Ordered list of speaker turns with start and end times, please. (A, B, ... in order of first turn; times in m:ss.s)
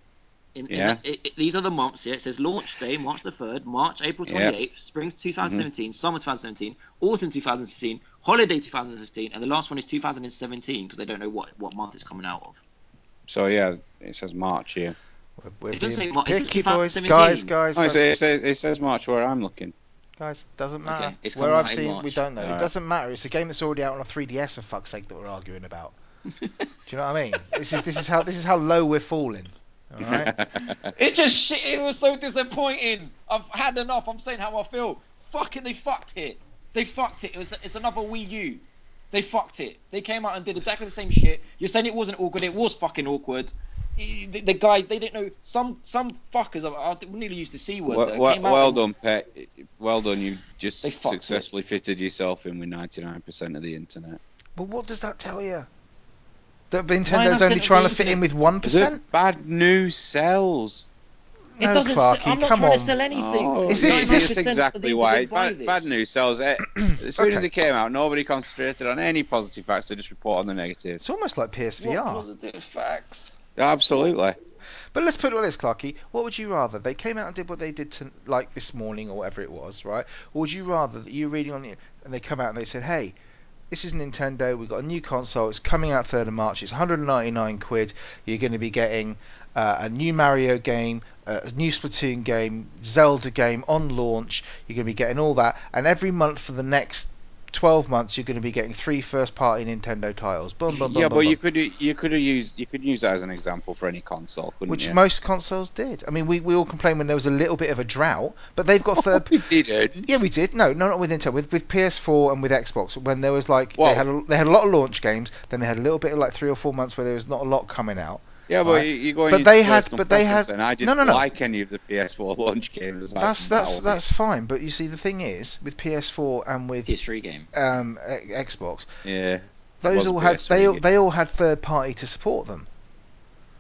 0:00.6-0:12.6 A
0:00.7-0:01.0 B
0:04.3-0:04.5 B
0:13.3-0:15.0 B
0:15.4-0:18.0 C
0:15.7-0:17.5 A
0:17.8-0:19.7 B
0:20.2-0:26.0 C
0:20.8-0:22.2 A
0:22.4-0:22.7 B
0:26.4-0:26.7 A
0:26.9-0:30.3 C
0:30.0-0:30.9 B
0:30.7-0:48.8 A
0:47.9-0:54.2 B
0:50.8-0:51.5 A
0:54.6-0:55.7 C
0:56.7-0:59.0 C
0:57.1-0:58.2 A
0:58.6-1:00.9 B
1:01.6-1:03.0 C
1:01.6-1:06.0 A
1:03.1-1:11.0 B
1:03.7-1:04.4 C
1:07.2-1:07.5 C
1:11.0-1:12.3 C
1:11.8-1:13.4 A
1:13.6-1:14.4 B
1:14.9-1:23.2 C
1:23.7-1:41.4 C
1:40.7-1:45.0 B
1:44.7-1:49.4 C
1:49.0-1:50.2 B
1:50.0-2:01.2 C
1:53.8-1:54.0 B
1:58.5-2:04.0 B
2:03.2-2:07.0 C
2:06.9-2:07.5 A
2:07.5-2:08.9 C
2:09.0-2:10.8 B
2:09.8-2:12.7 C